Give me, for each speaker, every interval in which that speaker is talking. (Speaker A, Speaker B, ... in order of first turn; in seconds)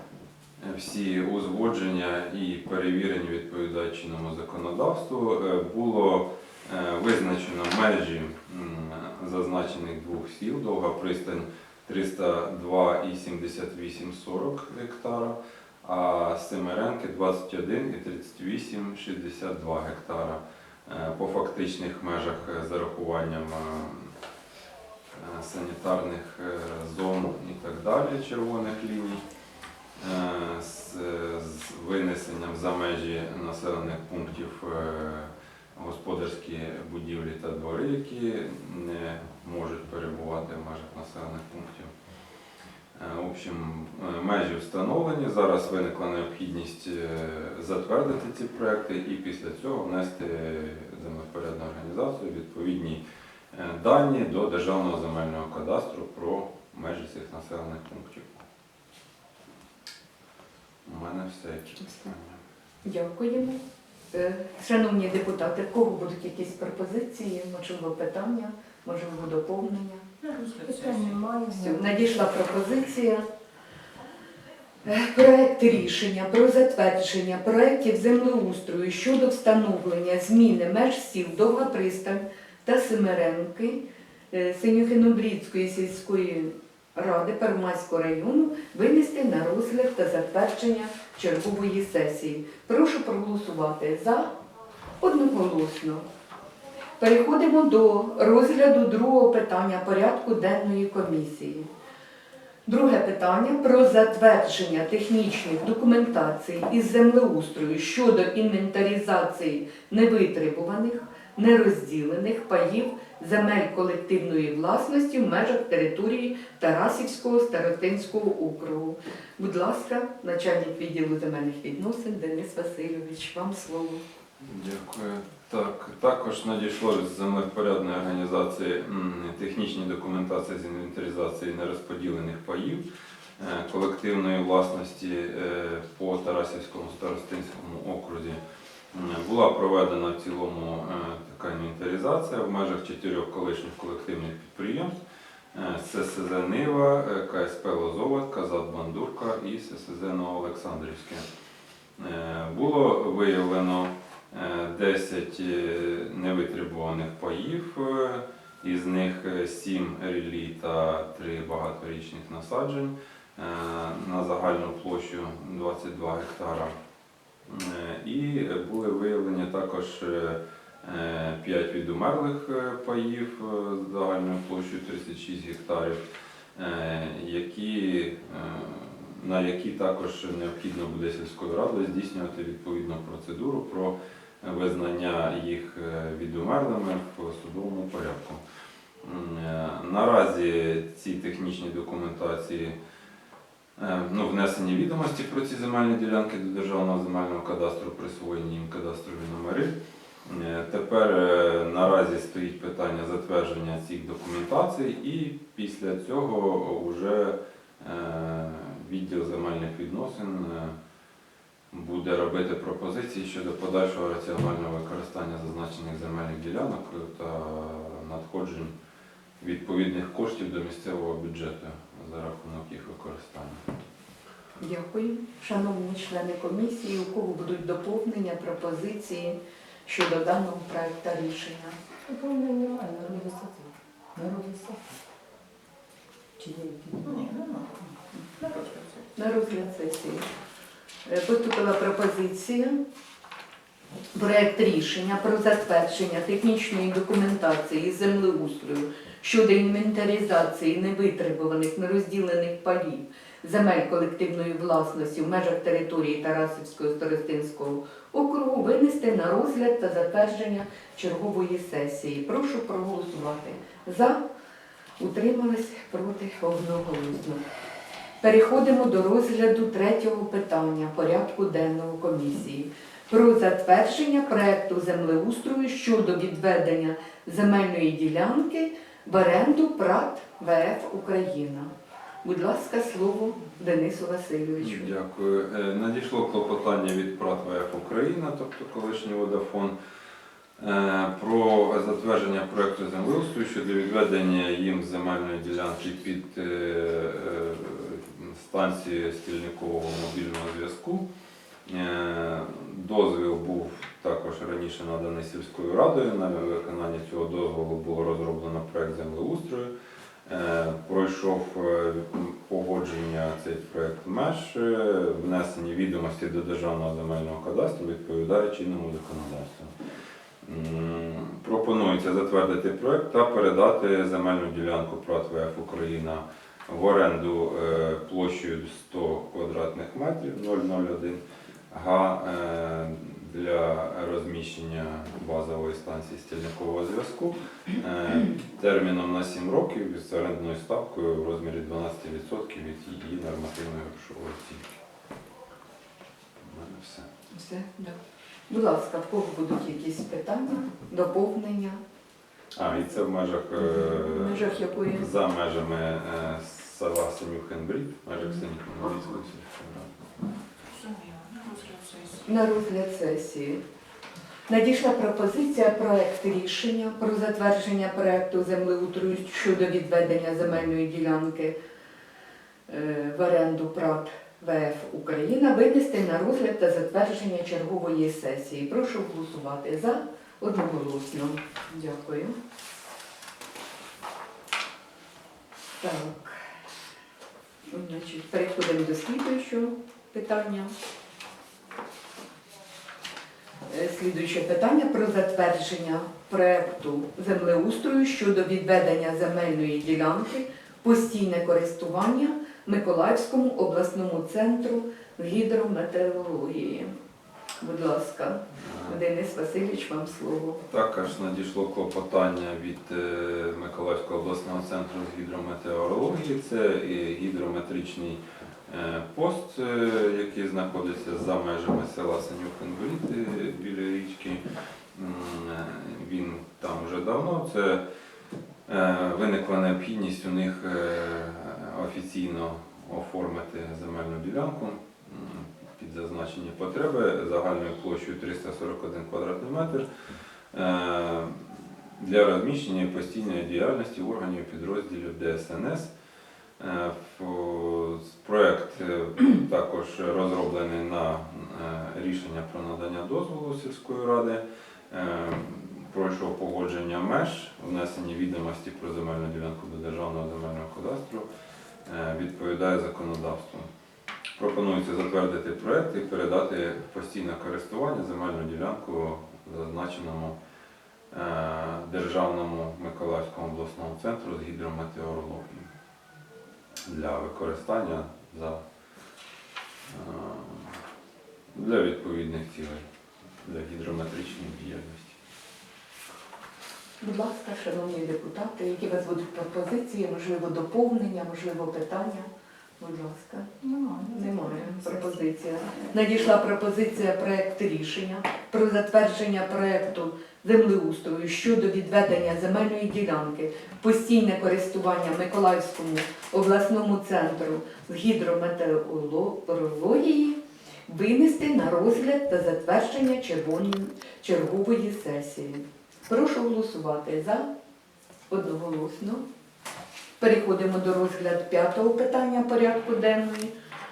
Speaker A: 0.6-24.1, 25.1-29.2, 30.0-41.9, 43.0-53.0, 53.5-58.4, 60.9-62.4, 124.4-132.8, 133.4-138.4, 138.9-144.9, 145.5-151.2, 152.0-166.7, 167.5-176.0, 176.6-188.4, 189.0-192.8, 193.8-199.7, 200.2-210.8, 211.7-218.7, 219.4-223.6, 284.6-289.7, 290.6-301.1, 301.7-309.7, 310.3-319.7, 320.4-331.2, 331.7-344.8, 346.4-347.1, 352.6-359.9, 408.6-409.0, 410.7-424.4, 424.9-427.8, 428.7-439.9, 440.5-445.9, 446.6-461.3, 461.9-463.7, 464.4-470.4, 471.1-475.7, 476.9-478.6, 479.9-480.8, 481.5-482.8, 483.4-485.2
Speaker B: 62.9-63.6, 64.1-70.0, 71.5-73.2, 74.8-83.8, 84.3-94.3, 95.0-96.1, 97.0-101.7, 102.7-124.0, 224.6-231.8, 239.2-240.2, 241.1-242.8, 244.1-264.2, 265.0-267.4, 268.2-281.7, 282.2-284.9, 347.3-348.0, 348.5-351.8, 353.7-355.1, 362.2-363.6, 364.5-371.5, 372.7-382.4, 385.8-386.4, 387.7-390.7, 393.7-406.9, 407.6-410.6, 487.0-493.5, 494.1-517.5, 518.3-519.2, 520.2-523.5
Speaker C: 70.2-71.2, 237.1-237.8, 238.4-239.0, 360.7-362.2
Speaker D: 70.6-72.0, 232.1-234.9, 236.4-237.3, 493.6-495.2